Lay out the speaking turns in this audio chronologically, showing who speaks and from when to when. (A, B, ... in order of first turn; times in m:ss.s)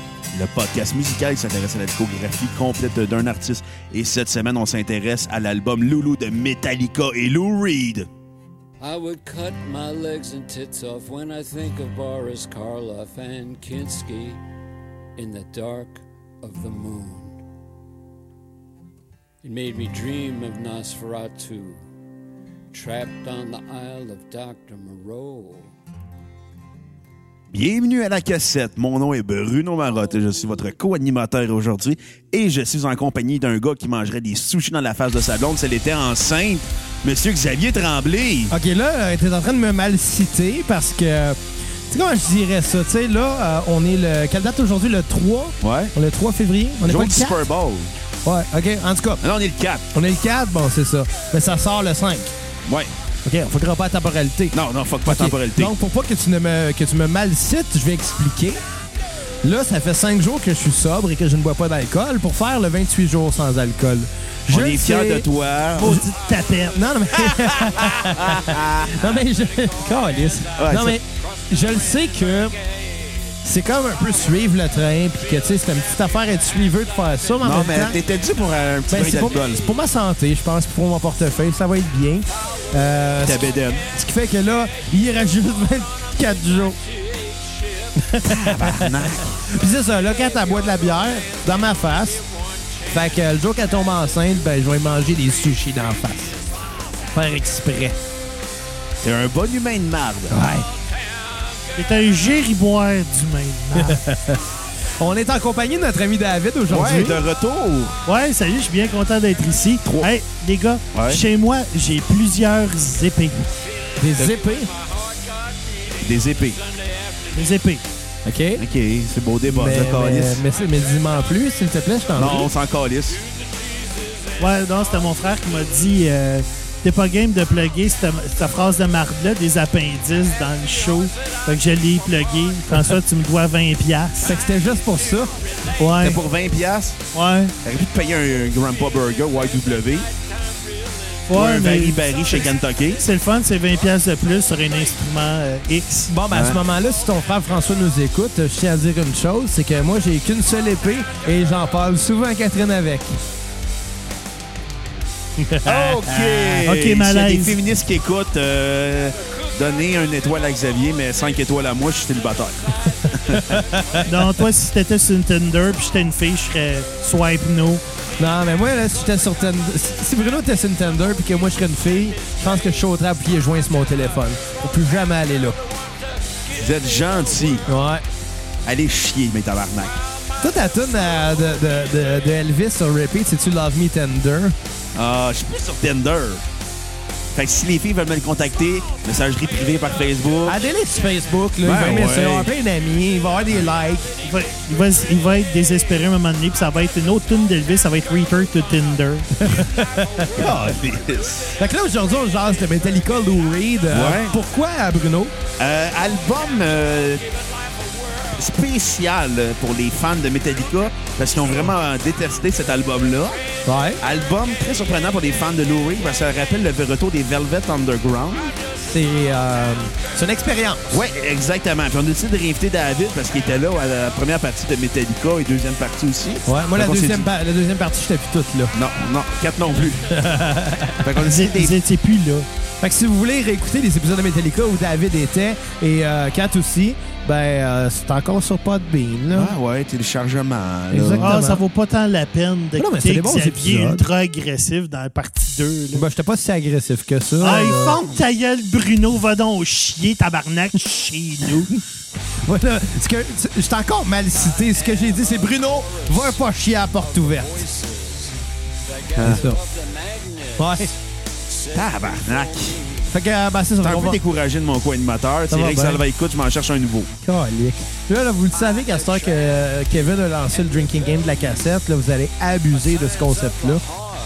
0:00.3-0:08.1 A
0:08.8-0:14.4 B
0:15.2-0:17.4 B
0:19.4-0:21.8 B
0:22.7-0:25.7 B
0:27.5-0:38.5 A
0:38.5-0:47.4 C
0:45.6-0:45.9 A
0:46.8-0:47.9 A
0:48.2-0:49.2 C
0:49.2-0:49.8 A
0:49.9-0:52.3 C
0:52.6-0:52.9 A
0:53.2-0:58.6 C
0:54.5-0:55.7 A
0:59.4-1:05.2 C
1:04.5-1:06.0 A
1:05.7-1:07.4 D
1:06.7-1:12.5 C
1:07.9-1:09.3 A
1:10.6-1:11.0 A
1:13.4-1:18.0 C
1:17.4-1:19.6 A
1:18.9-1:26.8 C
1:23.2-1:23.9 A
1:28.0-1:32.2 C
1:28.2-1:29.4 A
1:32.9-1:36.4 C
1:37.1-1:38.0 C
1:39.0-1:40.3 A
1:40.3-1:40.7 C
1:41.8-1:44.0 D
1:43.8-1:44.4 C
1:45.0-1:47.2 C
1:46.7-1:48.0 A
1:48.0-1:53.5 D
1:50.9-1:51.2 A
1:54.0-1:54.7 C
1:56.0-1:56.6 A
1:57.3-1:57.9 D
1:58.2-1:58.6 C
1:58.6-2:00.4 A
1:59.5-2:02.5 C
2:02.1-2:03.2 A
2:04.4-2:14.3 D
2:14.2-2:15.4 C
2:15.8-2:16.2 D
2:16.0-2:17.0 A
2:17.1-2:17.5 D
2:17.6-2:20.1 A
2:21.3-2:26.1 D
2:21.3-2:23.0 A
2:26.1-2:33.2 C
2:26.3-2:26.6 A
2:35.4-2:36.3 C
2:35.6-2:43.6 A
2:36.3-2:37.6 D
2:43.0-2:44.3 C
2:44.0-2:47.8 D
2:48.2-2:55.6 C
2:56.6-2:57.6 A
2:57.6-2:58.0 C
2:58.6-3:00.0 A
3:00.4-3:04.5 C
3:04.9-3:06.4 A
3:07.3-3:10.6 A
3:10.4-3:14.1 C
3:11.6-3:12.5 A
3:14.2-3:19.6 D
3:19.4-3:20.6 C
3:20.3-3:21.6 A
3:21.6-3:25.3 C
3:23.9-3:24.3 A
3:25.6-3:27.2 A
3:28.3-3:33.4 A
3:33.6-3:34.0 C
3:34.0-3:38.6 A
3:38.8-3:41.0 C
3:40.9-3:47.3 A
3:46.4-3:48.7 C
3:48.7-3:50.1 A
3:50.1-3:51.1 C
3:51.0-3:51.8 A
3:51.2-3:52.5 D
3:52.8-3:59.5 C
3:59.3-4:01.3 A
4:00.9-4:01.6 C
4:01.2-4:06.0 D
4:02.8-4:04.0 C
4:05.9-4:08.0 C
4:07.4-4:11.7 D
4:12.4-4:17.7 C
4:18.9-4:20.8 B
4:19.2-4:19.4 A
4:19.2-4:19.6 C
4:20.6-4:20.9 C
4:21.7-4:22.8 A
4:23.1-4:24.2 C
4:23.8-4:27.1 A
4:25.5-4:26.0 C
4:27.2-4:33.8 C